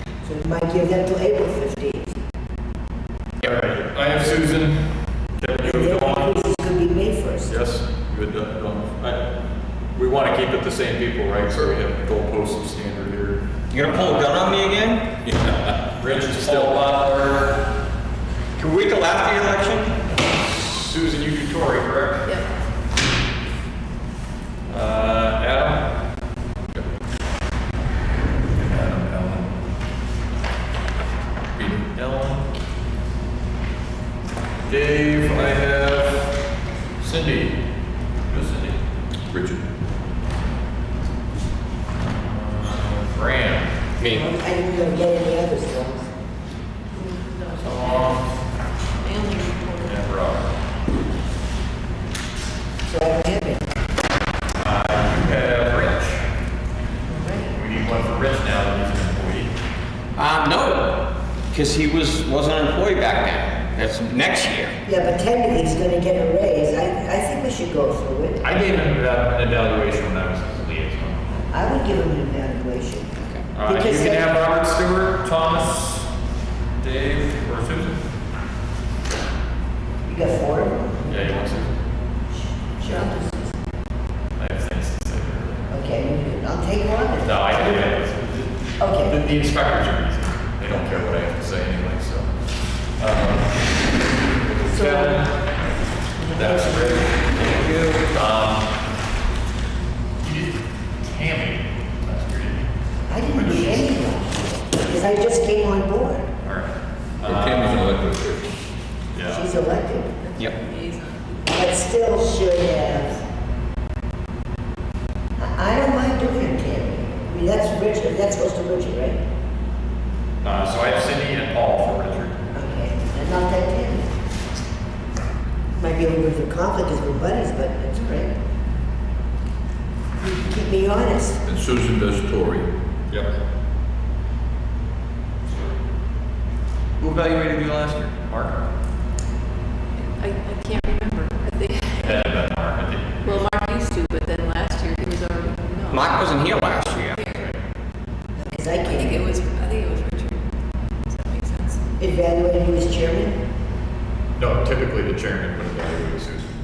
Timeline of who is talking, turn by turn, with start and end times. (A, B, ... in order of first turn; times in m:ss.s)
0:00.2-0:02.2 A
0:03.4-0:06.4 B
0:05.6-0:07.5 A
0:07.5-0:09.3 B
0:09.9-0:14.3 B
0:13.7-0:15.1 C
0:15.2-0:16.8 D
0:16.0-0:17.7 B
0:18.6-0:20.0 C
0:20.3-0:22.3 B
0:24.7-0:26.0 B
0:28.5-0:29.5 B
0:31.6-0:32.5 B
0:34.7-0:36.4 B
0:37.0-0:37.6 B
0:38.3-0:38.8 B
0:39.3-0:39.6 D
0:42.0-0:43.8 B
0:44.0-0:44.3 C
0:44.0-0:46.1 A
0:47.0-0:48.2 E
0:47.6-0:48.3 B
0:49.0-0:50.0 E
0:49.8-0:50.5 B
0:52.9-0:53.7 A
0:54.6-0:56.3 B
0:57.1-0:57.5 A
0:57.5-0:59.5 B
1:00.2-1:04.8 C
1:04.9-1:08.4 A
1:08.4-1:11.3 B
1:11.5-1:13.1 A
1:13.2-1:13.5 C
1:13.5-1:16.1 B
1:13.7-1:14.3 A
1:16.8-1:18.0 B
1:20.1-1:21.5 A
1:21.1-1:21.8 B
1:22.8-1:23.6 A
1:24.4-1:25.6 B
1:25.7-1:27.4 A
1:27.1-1:32.3 B
1:28.8-1:29.2 A
1:33.0-1:33.6 B
1:34.3-1:35.4 B
1:34.6-1:35.2 A
1:36.2-1:37.2 A
1:36.4-1:37.2 B
1:38.1-1:38.7 B
1:40.2-1:42.7 B
1:43.1-1:46.3 A
1:43.2-1:44.3 B
1:46.4-1:47.8 B
1:47.2-1:48.6 D
1:49.1-1:49.5 B
1:49.2-1:50.1 A
1:50.2-1:51.6 E
1:51.5-1:53.2 A
1:55.4-1:59.2 A
2:00.4-2:02.4 B
2:02.5-2:04.1 A
2:05.8-2:08.4 A
2:10.2-2:11.4 A
2:11.4-2:12.7 D
2:15.5-2:15.8 B
2:17.0-2:18.6 B
2:20.2-2:22.3 E
2:22.0-2:23.5 B
2:23.2-2:27.5 E
2:25.9-2:27.2 C
2:27.3-2:27.6 B
2:28.5-2:29.3 A
2:28.8-2:30.5 E
2:31.1-2:31.8 E
2:32.0-2:33.4 A
2:34.4-2:36.5 B